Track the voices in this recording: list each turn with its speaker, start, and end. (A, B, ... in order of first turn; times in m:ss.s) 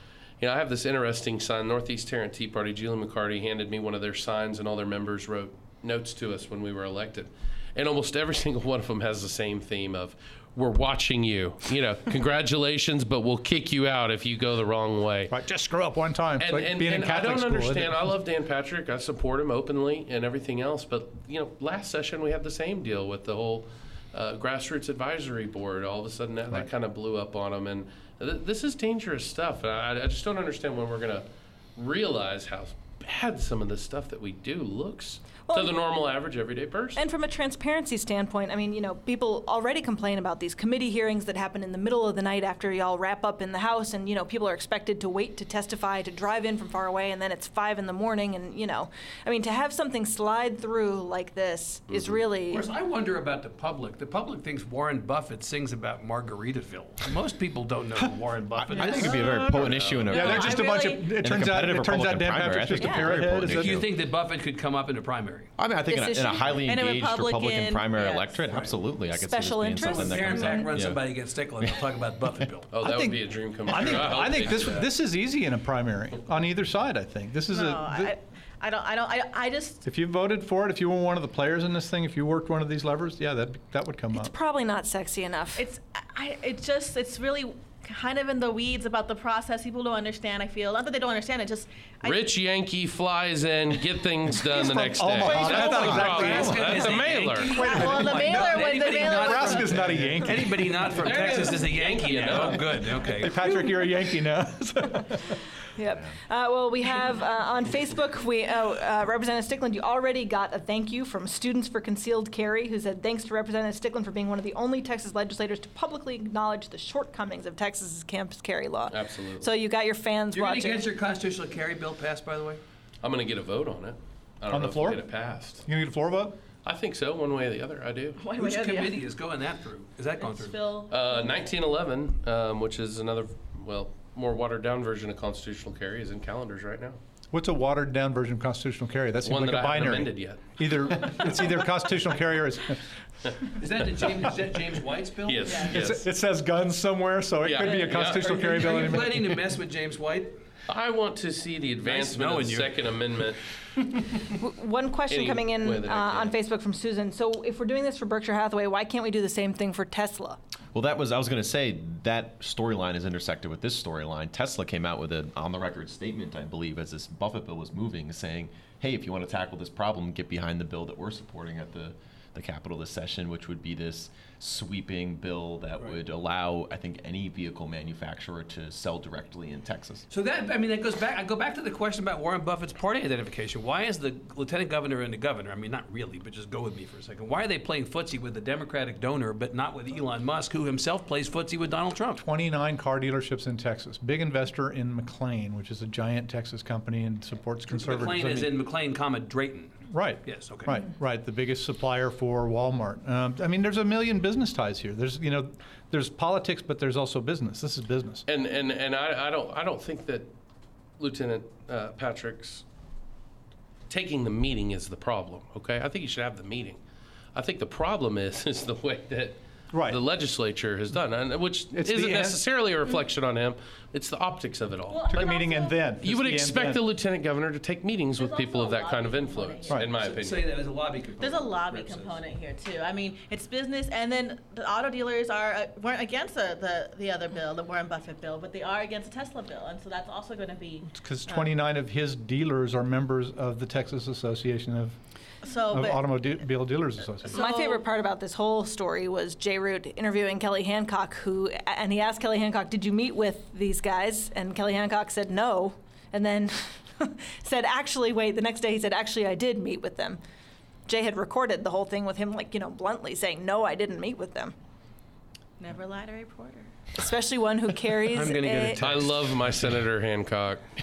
0:00.4-0:15.3 A
0:15.3-0:18.1 B
0:16.4-0:37.0 A
0:35.5-0:35.7 C
0:37.0-0:52.7 C
0:51.9-0:52.2 A
0:52.5-0:59.7 D
0:58.6-0:59.2 B
0:58.7-1:03.9 E
0:58.8-1:01.1 F
1:00.1-1:03.8 B
1:03.4-1:05.5 D
1:05.6-1:11.1 E
1:05.9-1:06.6 C
1:06.2-1:08.4 F
1:08.5-1:08.7 D
1:09.1-1:10.8 C
1:09.8-1:12.7 D
1:12.7-1:14.9 A
1:12.8-1:18.2 B
1:17.5-1:19.8 F
1:19.8-1:24.3 B
1:24.1-1:25.6 C
1:25.6-1:32.2 F
1:32.0-1:37.6 A
1:34.4-1:36.8 B
1:35.2-1:43.5 D
1:35.8-1:36.4 E
1:37.5-1:39.8 F
1:37.6-1:40.9 B
1:40.9-1:42.8 A
1:43.2-1:45.4 B
1:43.5-1:43.9 C
1:45.8-2:00.9 C
1:58.9-1:59.5 A
2:00.3-2:02.6 D
2:03.0-2:05.6 A
2:04.5-2:05.1 B
2:05.6-2:06.4 B
2:06.6-2:08.2 A
2:08.2-2:09.0 F
2:08.3-2:10.6 D
2:10.2-2:11.4 F
2:10.9-2:17.0 A
2:17.3-2:22.8 B
2:19.2-2:21.2 A
2:23.6-2:25.7 D
2:25.2-2:26.0 A
2:25.7-2:29.5 B
2:27.4-2:28.7 A
2:27.9-2:30.3 D
2:30.7-2:33.4 A
2:31.8-2:32.8 D
2:34.3-2:40.4 C
2:35.1-2:36.3 A
2:40.7-3:00.0 E
3:00.1-3:12.2 D
3:12.2-3:18.5 B
3:17.7-3:20.8 D
3:19.9-3:28.2 B
3:28.3-3:30.3 A
3:31.0-3:32.6 A
3:33.9-3:36.8 A
3:37.3-3:45.1 A
3:39.7-3:40.0 B
3:41.7-3:42.4 B
3:44.9-3:45.8 F
3:45.1-3:46.8 B
3:46.0-3:50.5 A
3:48.2-3:49.9 F
3:49.9-3:52.2 D
3:51.2-4:01.5 F
4:00.9-4:05.0 B
4:05.4-4:06.0 F
4:05.7-4:07.4 B
4:07.3-4:07.8 F
4:07.3-4:20.2 C
4:20.9-4:24.5 C
4:25.6-4:26.7 F
4:27.0-4:28.8 C
4:28.1-4:29.2 D
4:28.8-4:30.6 A